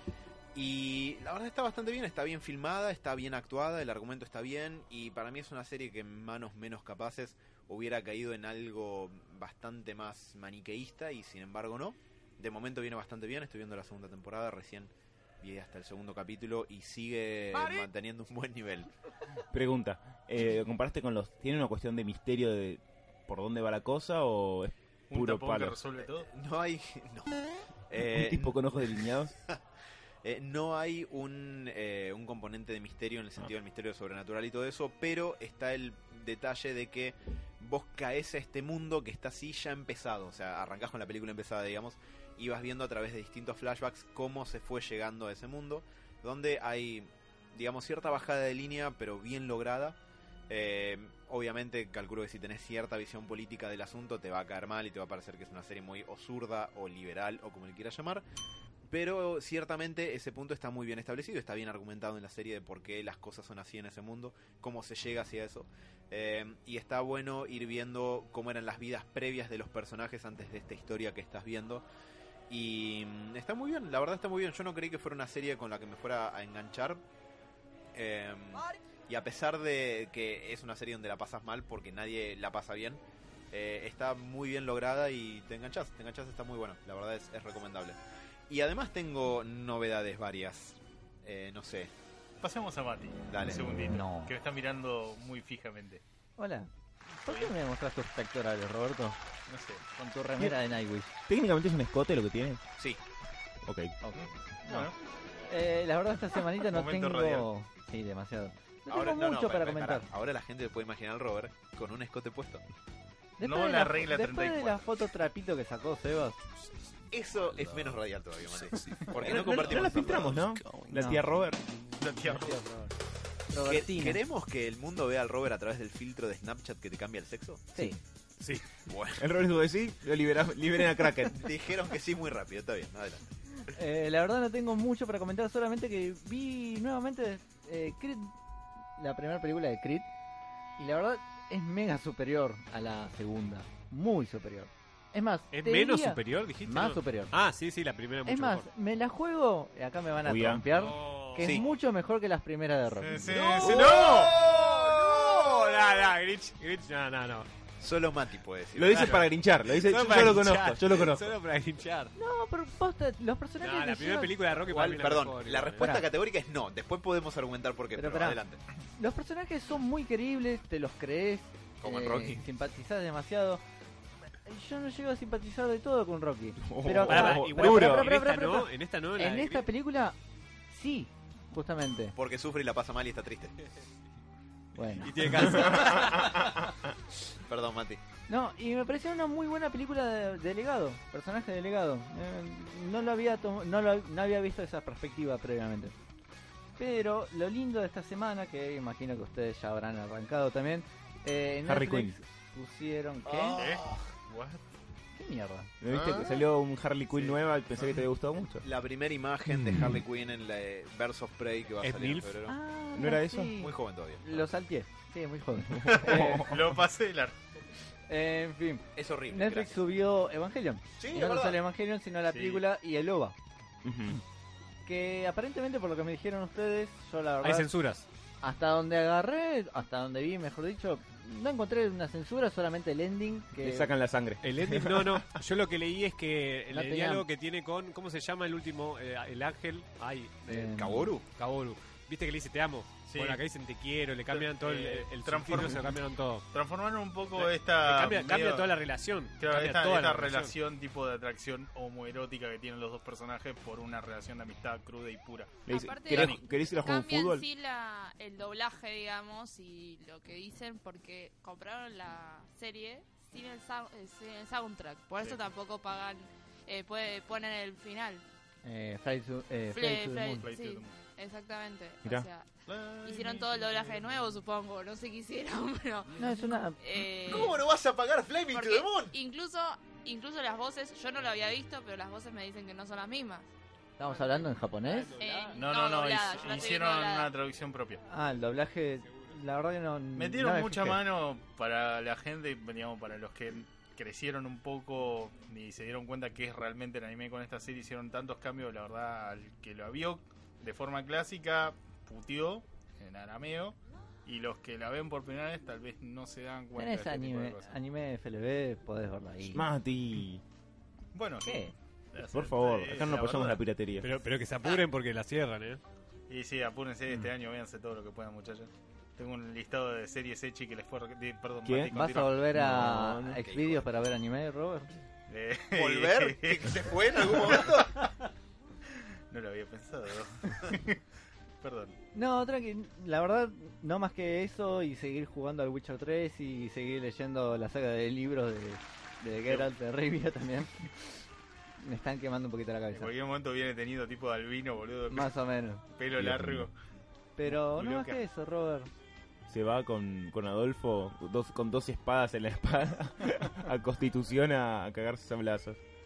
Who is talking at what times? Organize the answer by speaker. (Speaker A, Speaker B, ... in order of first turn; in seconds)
Speaker A: 0.6-18.9, 26.2-29.6, 30.2-50.0, 50.5-58.2, 58.9-71.8, 72.5-77.0, 77.9-88.0, 88.5-91.9, 93.3-93.7, 108.9-112.6, 117.1-120.5, 123.6-127.9, 128.8-129.3, 131.3-133.2, 151.4-151.7, 154.0-154.6, 157.8-159.3, 164.7-168.6, 171.8-172.4, 182.2-183.6, 187.5-188.0, 203.3-203.7, 208.6-212.6, 213.6-214.5, 218.9-219.8, 221.0-221.6, 240.8-241.2, 277.2-279.1, 323.2-323.9, 325.8-328.1
Speaker B: 19.5-25.8, 28.0-29.4, 101.3-102.6, 103.6-104.0, 119.2-121.6, 129.2-131.4, 150.2-150.6, 153.6-154.4, 158.7-161.3, 176.6-178.2, 185.7-186.4, 201.7-202.2, 205.8-208.7, 212.9-213.6, 215.8-216.5, 223.8-224.2, 233.6-235.3, 255.7-257.4, 309.5-310.4, 312.3-314.1, 321.6-323.4, 346.2-346.7, 349.5-355.8
Speaker C: 25.1-26.3, 92.4-96.0, 97.3-97.5, 99.5-100.0, 104.2-104.9, 106.7-107.5, 113.4-114.9, 122.0-122.5, 153.0-154.3, 203.6-204.7, 215.8-217.3, 222.3-222.6, 243.1-243.4, 244.3-246.0, 246.5-248.7, 249.4-255.7, 270.4-271.0, 272.7-274.1, 285.5-288.0, 290.2-307.7, 311.1-313.6, 316.3-322.4, 325.3-328.1, 329.3-331.0, 331.6-332.0, 342.9-345.4, 345.9-346.8, 347.4-348.2
Speaker D: 93.9-94.3, 96.4-99.2, 100.0-101.1, 104.0-104.9, 105.5-110.1, 113.4-116.4, 120.9-121.2, 122.3-122.9, 123.5-124.2, 133.7-138.3, 139.0-140.1, 140.8-147.3, 148.3-153.4, 162.2-164.5, 167.9-168.4, 169.0-173.6, 174.5-180.2, 180.7-182.2, 184.8-185.8, 188.3-195.9, 196.8-203.6, 205.2-205.7, 212.5-216.6, 218.1-223.3, 224.9-227.7, 228.4-233.9, 236.7-237.2, 240.5-241.1, 268.6-270.5, 276.2-276.8, 284.0-285.1, 288.1-291.0, 306.8-309.7, 311.4-311.7, 321.9-324.9, 332.1-340.9, 341.8-343.1, 345.1-345.8, 347.4-348.9
Speaker E: 145.5-148.7, 150.7-151.7, 153.3-157.5, 158.9-162.1, 163.6-166.1, 177.0-179.7, 185.0-186.5, 211.8-212.4, 227.4-228.1, 234.4-246.5, 247.4-250.6, 284.1-285.6, 289.1-289.4, 314.0-315.8
Speaker F: 255.7-268.2, 269.7-272.5, 273.0-277.6, 278.5-283.5, 285.2-287.3